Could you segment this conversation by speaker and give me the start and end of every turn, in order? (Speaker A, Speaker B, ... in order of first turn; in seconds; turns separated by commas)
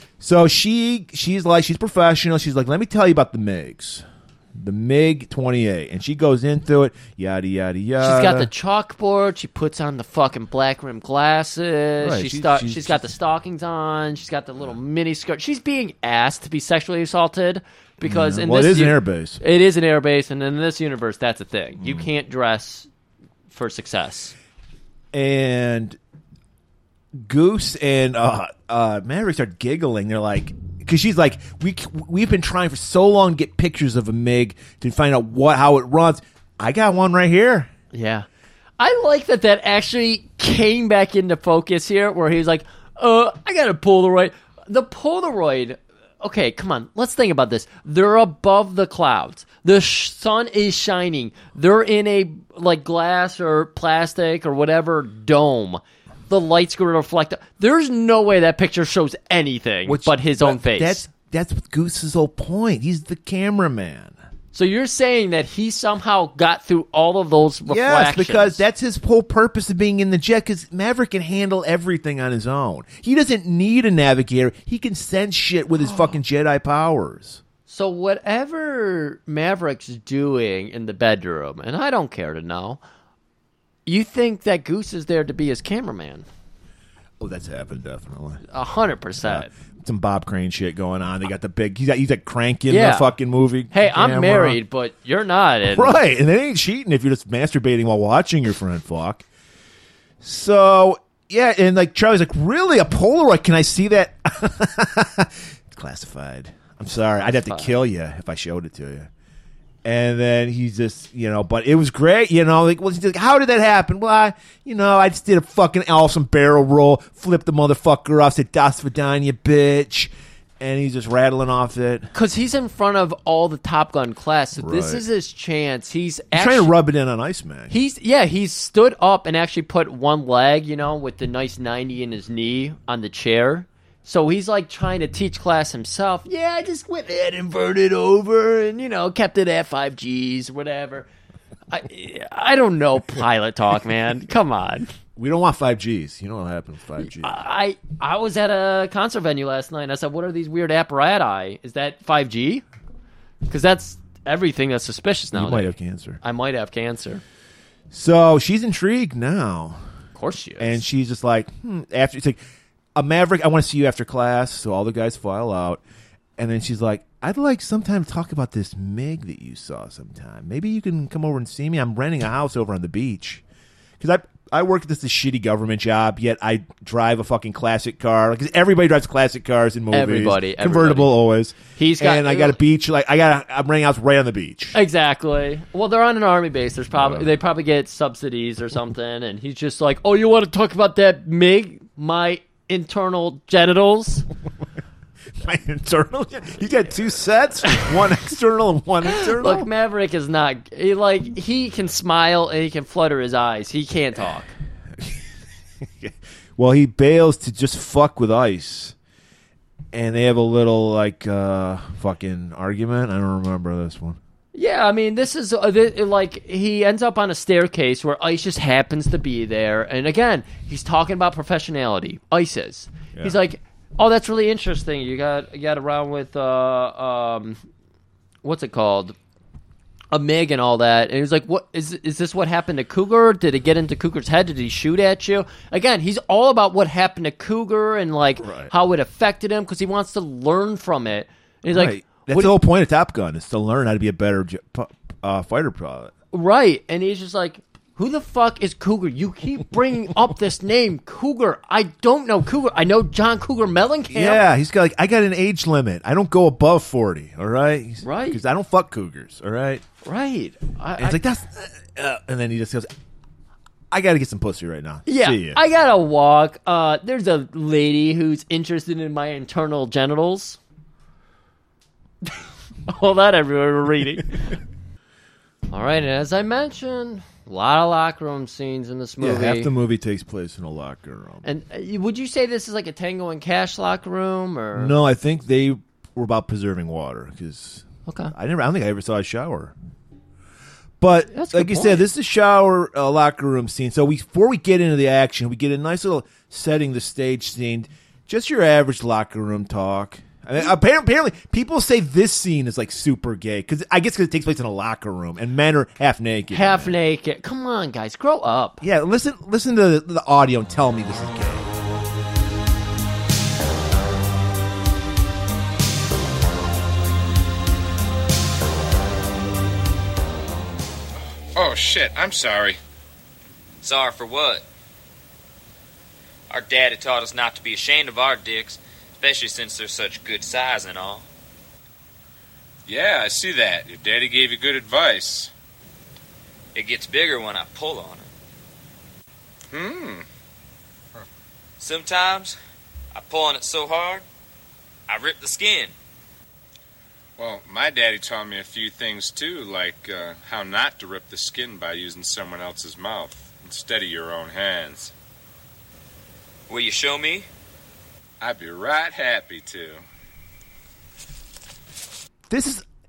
Speaker A: 0.2-4.0, Speaker A: 4.5-8.5, Speaker B: 8.0-22.9, Speaker A: 12.0-13.1, Speaker A: 18.0-19.4, Speaker A: 21.8-22.1, Speaker B: 23.5-24.3, Speaker A: 25.1-26.0, Speaker A: 27.1-37.7, Speaker B: 37.9-38.3, Speaker B: 38.8-61.0, Speaker A: 59.9-64.1, Speaker B: 64.5-68.6, Speaker A: 67.7-77.4, Speaker B: 77.7-82.8, Speaker B: 83.8-86.2, Speaker A: 87.2-88.4, Speaker B: 88.5-89.5, Speaker A: 89.2-94.6, Speaker B: 92.7-93.1, Speaker B: 93.7-96.0, Speaker A: 95.7-99.2, Speaker A: 100.2-109.1, Speaker B: 107.3-107.8, Speaker A: 109.8-122.1, Speaker B: 122.1-126.7, Speaker A: 124.6-125.0, Speaker A: 126.3-127.7, Speaker B: 127.7-141.1, Speaker B: 141.7-144.9, Speaker A: 145.2-147.3, Speaker B: 147.0-152.6, Speaker B: 153.5-157.2, Speaker A: 155.3-156.2, Speaker A: 157.9-159.8, Speaker B: 160.1-160.8, Speaker A: 160.6-162.4, Speaker A: 162.9-165.8, Speaker A: 166.4-173.4, Speaker A: 174.0-184.8, Speaker B: 179.9-181.1, Speaker B: 181.7-182.6, Speaker B: 184.7-194.2, Speaker A: 186.9-187.3, Speaker A: 195.4-199.7, Speaker B: 197.7-197.9, Speaker B: 199.1-204.5, Speaker A: 205.8-208.9, Speaker A: 209.9-214.2, Speaker B: 214.5-227.6, Speaker B: 228.4-229.1, Speaker B: 230.1-242.6, Speaker A: 238.4-238.7, Speaker A: 241.7-246.1, Speaker B: 246.3-254.4, Speaker A: 254.1-259.8, Speaker B: 258.0-258.4, Speaker B: 260.0-261.2, Speaker A: 261.0-262.9, Speaker A: 263.9-265.6, Speaker B: 265.1-270.6, Speaker B: 272.2-274.5, Speaker B: 275.7-279.7, Speaker A: 279.2-281.4, Speaker B: 281.4-285.0, Speaker A: 284.7-289.7, Speaker B: 288.1-288.3, Speaker A: 291.0-306.9, Speaker B: 291.3-292.0, Speaker B: 306.5-308.8, Speaker A: 308.8-311.7, Speaker C: 321.5-322.8, Speaker D: 323.8-324.6, Speaker D: 326.5-331.2, Speaker C: 332.9-335.5, Speaker D: 336.7-338.3, Speaker C: 339.7-340.2, Speaker D: 341.8-342.6, Speaker D: 343.1-344.2, Speaker D: 345.1-345.9, Speaker C: 347.4-355.1, Speaker D: 356.7-357.4, Speaker C: 358.4-360.0, Speaker A: 362.5-362.8